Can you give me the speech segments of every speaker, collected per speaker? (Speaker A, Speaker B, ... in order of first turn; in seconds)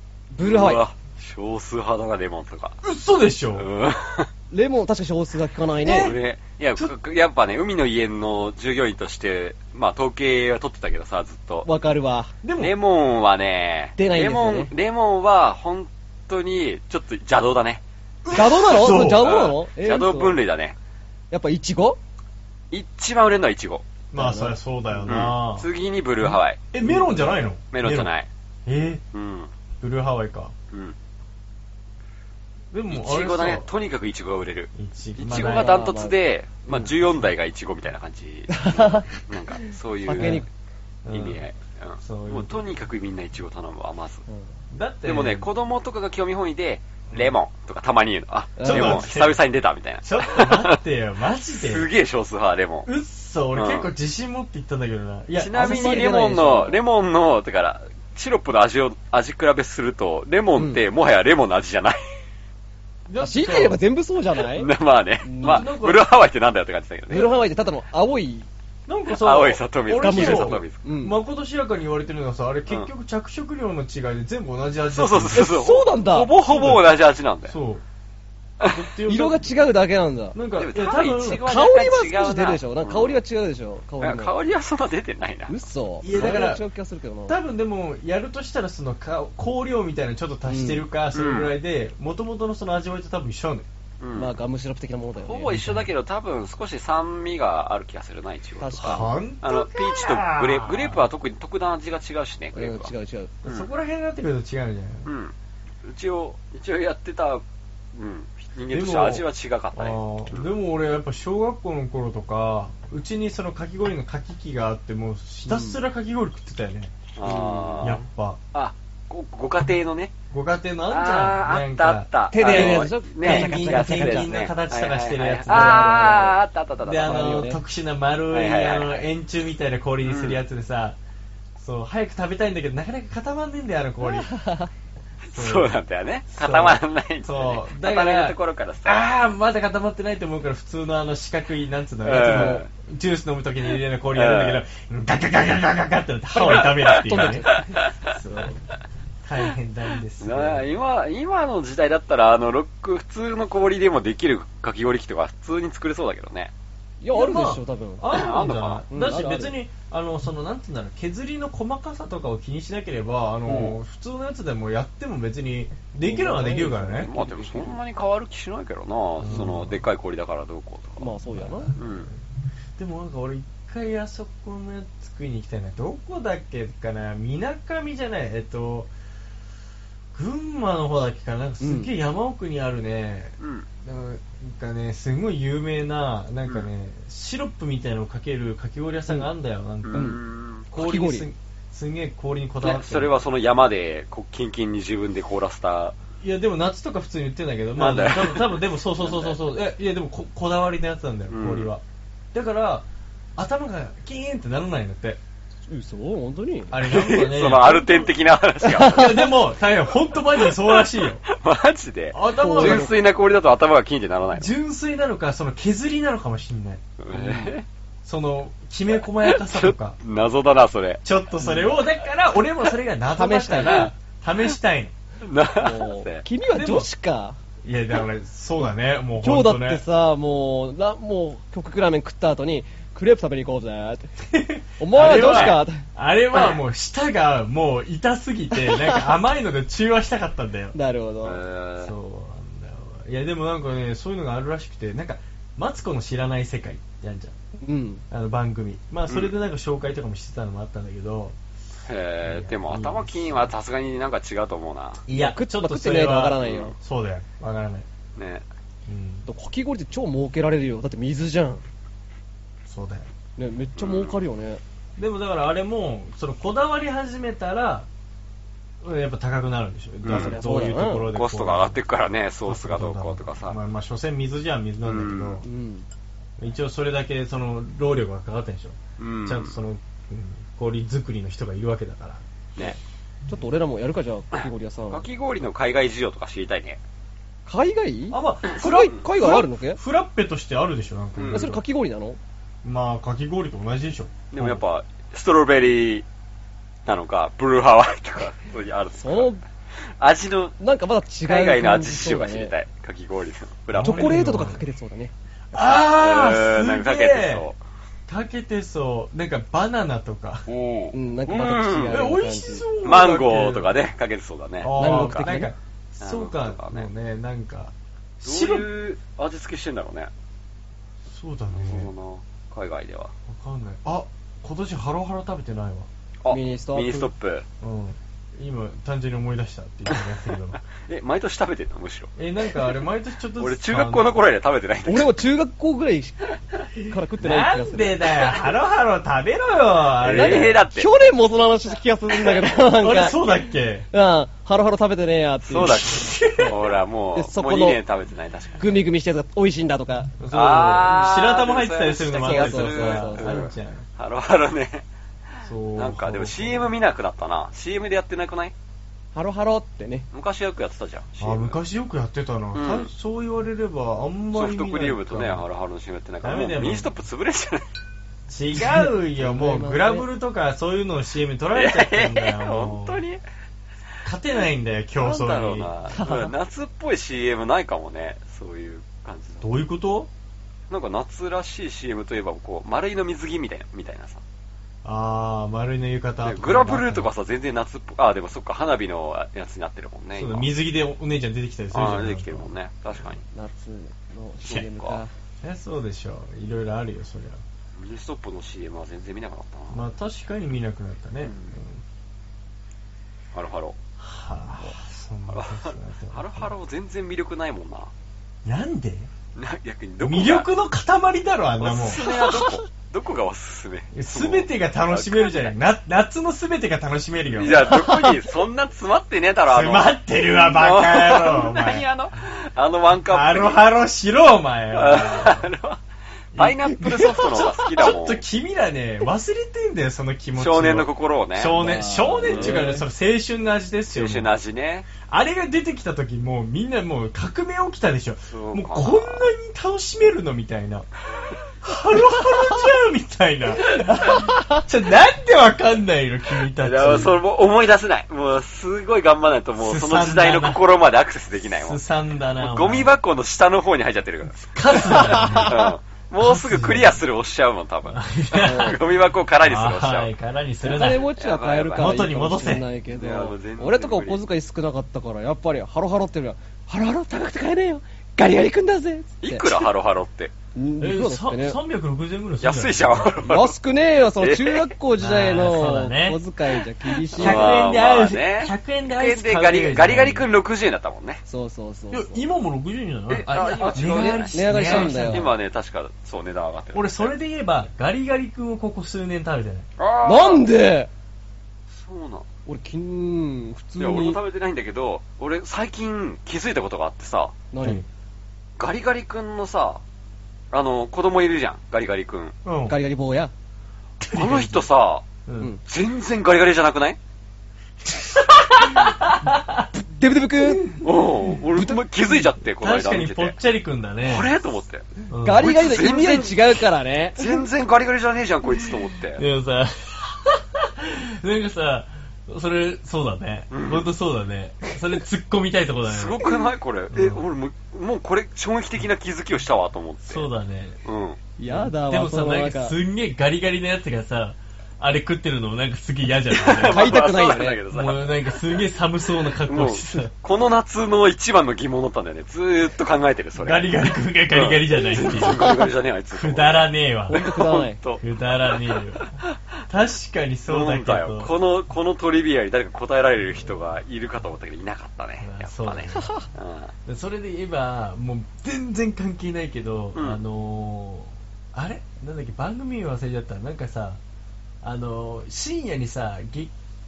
Speaker A: 0.3-0.8, 4.5-6.1, 11.6-12.3, 14.0-14.7, 18.3-20.4, 21.3-22.0, 24.1-25.1, 26.8-27.4, 35.3-36.2, 38.5-39.1, 39.6-40.5, 48.6-49.1, 55.5-56.8, 60.6-60.8, 63.2-64.7, 65.2-65.7, 67.1-68.5, 69.9-71.2, 75.3-76.3, 79.0-80.4, 81.2-84.3, 85.5-87.4, 90.5-90.8, 94.1-95.6, 98.6-99.1, 102.5-103.3, 115.5-115.8, 117.2-117.9, 122.3-124.3, 125.5-126.3, 127.0-127.6, 134.2-134.7, 142.2-142.6, 146.3-148.6, 157.0-158.1, 158.9-159.6, 166.0-167.8, 171.0-171.7, 181.6-181.9, 189.9-191.3, 205.7-206.7, 208.6-209.3, 212.4-213.0, 217.1-217.5, 221.4-221.7, 223.2-223.9, 225.6-227.4, 229.2-234.1, 234.8-235.8, 238.5-239.0, 240.7-241.4, 247.6-248.0, 255.1-256.7, 259.2-261.6, 263.4-264.6, 270.1-271.1, 275.4-275.9, 283.3-285.1, 287.4-289.8, 291.3-292.2, 299.0-299.4, 300.6-302.5, 303.8-305.8, 310.9-312.6, 314.7-315.5, 326.3-327.1, 334.9-338.2, 340.1-343.2, 343.9-346.6, 347.1-347.8, 348.6-350.2, 350.7-351.1, 352.2-353.5, 359.1-360.1, 369.1-370.1, 375.9-376.3, 393.3-395.1, 412.0-412.5, 417.6-418.2, 431.5-432.8, 454.9-455.5, 458.4-458.8, 460.6-469.7, 470.5-471.6, 473.2-477.6, 481.3-482.2, 483.4-485.3, 490.0-490.9, 492.5-494.2, 497.5-497.8, 502.7-503.3, 509.7-510.8, 515.2-517.4, 531.4-532.8, 536.6-537.6, 545.1-545.7, 547.1-547.8, 556.0-556.2
Speaker B: 0.4-2.8, 3.5-4.3, 5.8-11.7, 12.6-17.8, 18.7-20.8, 22.7-23.9, 25.1-26.6, 27.7-28.3, 29.1-29.5, 32.9-40.5, 41.1-44.2, 45.0-50.8, 51.5-52.9, 53.5-53.9, 55.3-62.0, 64.4-67.3, 69.2-70.8, 74.9-77.5, 80.5-83.2, 84.0-85.5, 91.1-91.5, 94.0-94.3, 95.2-102.9, 105.0-107.4, 107.9-110.5, 117.2-118.0, 118.5-120.1, 120.9-127.4, 128.3-129.1, 130.0-130.4, 135.2-139.0, 142.0-142.7, 144.1-144.6, 146.4-147.9, 150.2-156.5, 158.1-158.8, 163.5-163.7, 167.0-171.1, 171.8-172.1, 183.4-183.7, 189.8-190.7, 192.6-195.9, 197.8-199.4, 201.3-201.7, 206.8-209.2, 210.3-214.5, 217.0-217.6, 219.2-221.0, 223.6-223.9, 225.2-226.2, 234.9-235.6, 241.2-241.9, 251.9-255.0, 256.4-256.7, 258.1-258.4, 263.8-264.1, 270.0-270.4, 271.1-273.6, 274.8-275.4, 279.0-279.6, 284.9-286.8, 291.1-291.5, 294.3-296.1, 296.9-299.3, 300.0-300.5, 301.2-304.4, 305.9-307.6, 310.5-312.1, 312.8-314.8, 316.0-316.9, 318.2-320.1, 321.5-323.1, 326.2-327.4, 330.7-332.1, 333.4-335.1, 340.0-340.9, 345.5-348.8, 350.3-354.8, 355.7-358.5, 360.1-361.6, 362.5-362.9, 364.3-367.7, 371.5-373.2, 374.9-379.5, 380.7-384.2, 386.2-390.5, 391.7-393.2, 394.5-395.0, 397.8-399.8, 401.2-401.6, 403.3-403.8, 405.3-407.9, 409.3-410.5, 411.6-415.5, 417.3-423.6, 424.7-425.8, 426.3-428.2, 430.3-431.6, 432.2-432.8, 433.9-434.9, 438.3-439.3, 446.6-451.8, 452.4-460.1, 460.6-462.1, 462.9-464.2, 469.2-470.3, 472.4-473.6, 474.1-474.7, 477.1-481.2, 483.1-487.1, 489.8-490.4, 491.7-492.2, 493.8-497.4, 498.6-499.8, 500.5-502.3, 504.1-505.1, 505.6-507.0, 510.8-513.4, 514.0-516.6, 517.1-519.2, 523.5-523.9, 525.9-530.3, 530.8-531.2, 536.3-538.6, 539.4-543.8, 544.3-549.4, 550.5-556.7, 559.9-560.2
Speaker C: 2.8-3.7, 5.8-6.2, 12.4-12.7, 18.2-19.3, 24.1-25.7, 26.2-28.1, 28.6-29.0, 29.8-30.5, 32.7-33.7, 34.7-35.9, 36.7-37.3, 40.1-40.4, 41.0-41.4, 42.0-42.6, 44.7-45.5, 48.6-49.4, 50.0-51.9, 52.8-56.0, 63.1-63.8, 65.4-66.1, 68.9-75.5, 76.4-76.9, 77.5-77.8, 78.6-79.5, 80.3-81.4, 86.0-86.6, 87.3-93.7, 95.5-95.9, 98.8-101.0, 103.4-105.1, 108.7-117.0, 117.8-118.4, 120.3-126.3, 126.8-131.0, 131.6-134.3, 135.3-135.7, 136.3-147.5, 148.1-148.5, 149.2-150.7, 157.1-167.1, 169.2-169.8, 171.3-172.2, 172.8-178.9, 180.1-190.2, 190.7-193.1, 196.2-201.8, 202.3-205.2, 206.7-208.1, 208.8-211.2, 212.1-212.9, 214.3-216.8, 218.0-220.0, 221.0-224.9, 226.5-226.9, 227.6-229.8, 234.3-240.8, 241.8-247.3, 248.1-251.3, 252.2-253.5, 255.1-257.9, 258.9-259.2, 262.6-263.1, 265.0-267.9, 268.8-271.8, 272.4-275.4, 276.4-282.2, 288.1-291.6, 292.6-294.6, 303.7-304.6, 305.5-307.4, 308.1-310.4, 311.9-313.7, 314.6-318.7, 321.1-321.9, 323.3-325.9, 327.6-330.6, 332.1-334.1, 337.2-340.6, 342.7-343.9, 345.6-346.6, 350.2-353.9, 355.4-356.7, 361.2-365.4, 366.2-366.9, 368.3-373.0, 374.0-375.7, 379.4-380.1, 384.8-387.1, 390.1-392.5, 395.4-397.4, 399.7-401.8, 404.0-406.5, 408.4-409.1, 410.0-412.1, 413.9-418.0, 419.5-421.9, 423.1-425.5, 426.3-434.3, 435.0-440.9, 441.6-447.2, 449.6-450.6, 451.6-452.9, 454.4-455.7, 456.2-457.0, 457.9-458.8, 459.4-461.1, 461.8-462.7, 470.8-473.2, 475.0-476.2, 477.1-480.3, 481.9-485.3, 486.7-489.7, 497.6-497.9, 502.4-502.8, 504.0-504.7, 505.2-505.5, 508.1-509.7, 510.4-511.3, 512.4-514.3, 515.1-515.5, 519.1-526.2, 526.9-527.2, 530.0-530.8, 531.5-537.1, 537.7-540.1, 543.4-545.5, 546.1-547.2, 548.0-549.1, 549.7-551.3, 555.2-556.2, 556.9-564.0, 564.6-566.5